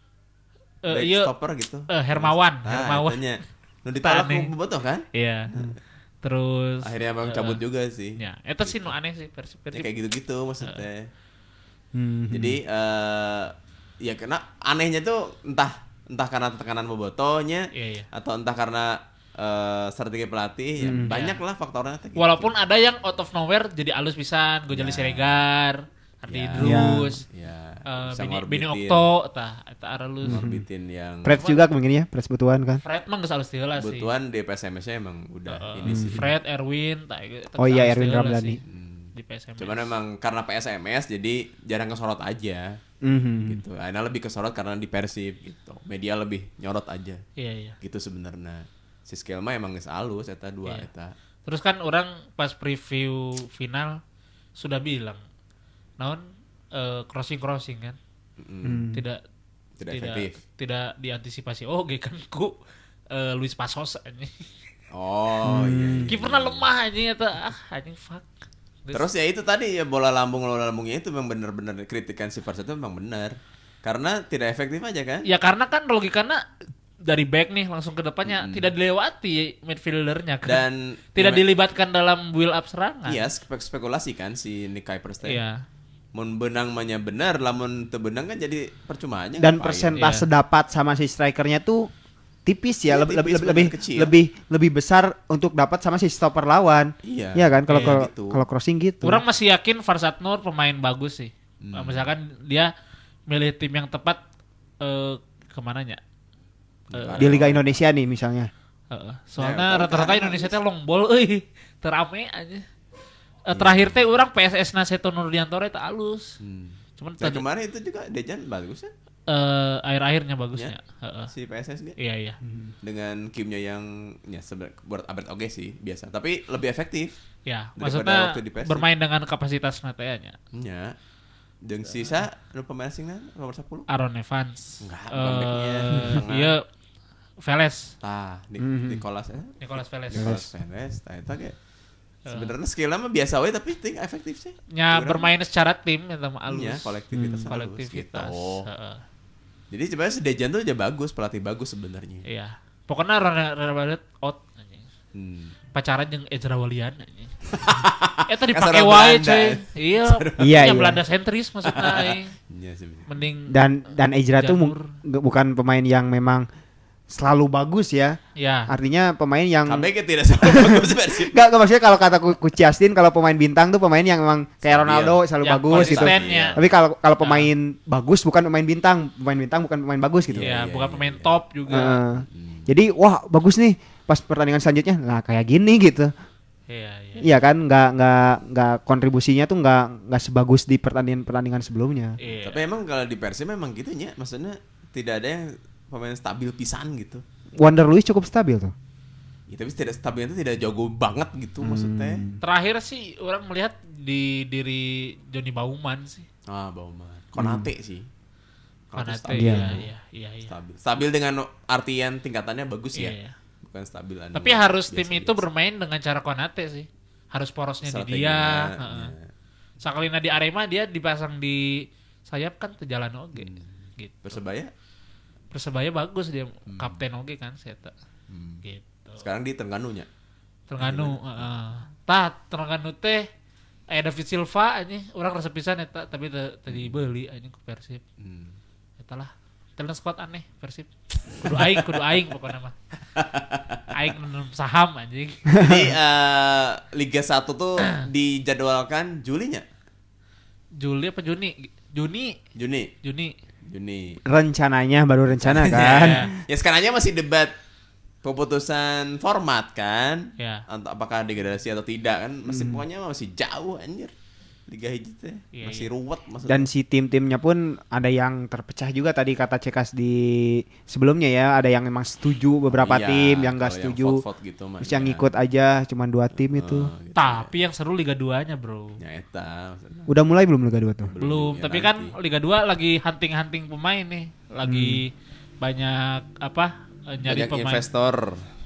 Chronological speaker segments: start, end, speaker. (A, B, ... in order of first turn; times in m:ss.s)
0:00.8-0:01.3 A
0:00.9-0:05.7 B
0:01.9-0:03.2 A
0:04.0-0:04.5 A
0:05.1-0:05.5 A
0:06.2-0:07.6 A
0:06.8-0:08.9 B
0:08.2-0:09.9 A
0:09.7-0:11.1 B
0:11.9-0:12.6 C
0:12.3-0:22.5 B
0:17.7-0:18.1 A
0:20.8-0:21.1 C
0:21.1-0:21.4 A
0:22.2-0:27.2 A
0:24.7-0:25.4 B
0:26.3-0:29.1 B
0:26.6-0:27.1 C
0:27.9-0:30.4 A
0:30.2-0:31.4 B
0:30.2-0:30.6 C
0:31.2-0:32.8 C
0:31.4-0:31.6 A
0:32.8-0:34.1 A
0:33.8-0:36.3 B
0:35.5-0:38.6 A
0:35.8-0:36.2 C
0:37.6-0:38.6 C
0:38.6-0:42.8 B
0:39.1-0:39.9 A
0:43.0-0:43.6 C
0:43.4-0:47.2 B
0:47.4-0:47.8 A
0:47.8-0:51.1 B
0:51.4-0:54.0 A
0:54.6-0:55.2 A
0:56.0-0:58.0 A
0:58.4-0:58.9 B
0:58.6-0:59.0 C
0:58.9-0:59.2 A
0:59.8-1:00.4 B
0:59.9-1:02.5 A
1:03.1-1:04.4 A
1:04.9-1:06.7 B
1:05.4-1:06.1 C
1:06.1-1:08.3 A
1:08.9-1:15.2 B
1:15.2-1:16.4 A
1:17.0-1:20.6 A
1:18.2-1:18.7 B
1:20.4-1:21.4 B
1:21.1-1:23.2 A
1:23.0-1:25.4 B
1:25.2-1:25.6 A
1:26.1-1:30.0 B
1:29.4-1:31.9 C
1:30.0-1:30.3 A
1:32.4-1:39.2 C
1:32.9-1:34.1 B
1:37.0-1:38.4 B
1:37.7-1:38.0 A
1:39.0-1:42.7 A
1:41.6-1:42.1 B
1:43.3-1:44.2 A
1:44.8-1:46.0 A
1:46.9-1:47.7 B
1:46.9-1:47.4 A
1:47.2-1:48.5 C
1:48.9-1:52.6 A
1:49.4-1:50.6 B
1:53.4-1:56.4 A
1:53.5-1:54.0 B
1:56.4-1:58.9 B
1:57.0-1:57.4 A
1:59.3-2:01.3 A
2:01.3-2:02.0 B
2:02.0-2:02.4 A
2:02.8-2:07.2 B
2:07.4-2:10.4 A
2:07.8-2:08.8 B
2:10.5-2:10.9 B
2:11.6-2:13.9 B
2:13.9-2:16.6 A
2:14.8-2:16.5 B
2:17.4-2:17.9 A
2:18.0-2:21.6 B
2:18.6-2:19.0 C
2:19.6-2:20.4 A
2:20.2-2:20.4 C
2:22.3-2:22.5 A
2:22.3-2:25.3 B
2:24.7-2:29.0 A
2:26.5-2:28.7 B
2:27.1-2:27.5 C
2:29.7-2:32.2 B
2:32.2-2:34.9 A
2:35.1-2:35.6 B
2:35.7-2:42.3 A
2:37.5-2:40.8 B
2:40.4-2:41.0 C
2:41.6-2:43.1 B
2:43.1-2:43.6 A
2:43.5-2:46.5 C
2:44.4-2:44.9 A
2:47.1-2:49.9 C
2:48.4-2:48.7 A
2:49.6-2:51.4 B
2:50.4-3:00.5 C
2:54.6-2:56.6 B
2:55.4-2:56.6 A
2:57.2-2:57.5 A
3:00.3-3:01.4 B
3:00.4-3:02.0 A
3:01.7-3:06.1 C
3:02.3-3:02.7 B
3:06.7-3:07.3 A
3:07.2-3:12.2 C
3:12.2-3:12.6 A
3:12.3-3:17.2 B
3:17.6-3:18.7 C
3:19.5-3:22.2 B
3:21.6-3:22.4 C
3:22.4-3:26.3 A
3:26.5-3:28.1 B
3:27.4-3:27.7 C
3:28.9-3:29.8 B
3:28.9-3:30.5 A
3:29.3-3:29.8 C
3:30.5-3:35.4 B
3:32.9-3:33.4 A
3:34.3-3:39.1 A
3:37.8-3:39.3 B
3:39.8-3:44.4 A
3:43.4-3:44.7 B
3:45.5-3:47.9 A
3:46.7-3:47.0 B
3:48.3-3:48.6 B
3:48.6-3:49.2 A
3:49.2-3:50.1 B
3:50.7-3:53.3 A
3:50.8-3:51.6 B
3:53.9-3:58.0 A
3:56.7-3:57.0 B
3:58.2-3:58.6 B
3:59.0-4:02.7 A
4:01.4-4:01.9 B
4:03.1-4:03.8 B
4:03.9-4:05.5 A
4:05.6-4:09.6 B
4:10.8-4:12.4 A
4:12.5-4:12.9 B
4:13.0-4:13.3 A
4:13.7-4:14.2 B
4:14.2-4:16.2 C
4:15.4-4:17.5 B
4:15.9-4:16.3 A
4:18.2-4:24.1 B
4:20.4-4:20.6 A
4:22.5-4:22.8 C
4:24.7-4:26.6 B
4:25.5-4:25.9 A
4:26.4-4:34.2 C
4:32.7-4:35.3 B
4:34.8-4:36.9 C
4:36.4-4:37.5 B
4:37.2-4:39.0 A
4:39.0-4:40.1 B
4:40.1-4:41.1 C
4:41.1-4:42.1 B
4:41.2-4:47.8 A
4:44.6-4:45.0 C
4:47.3-4:48.5 B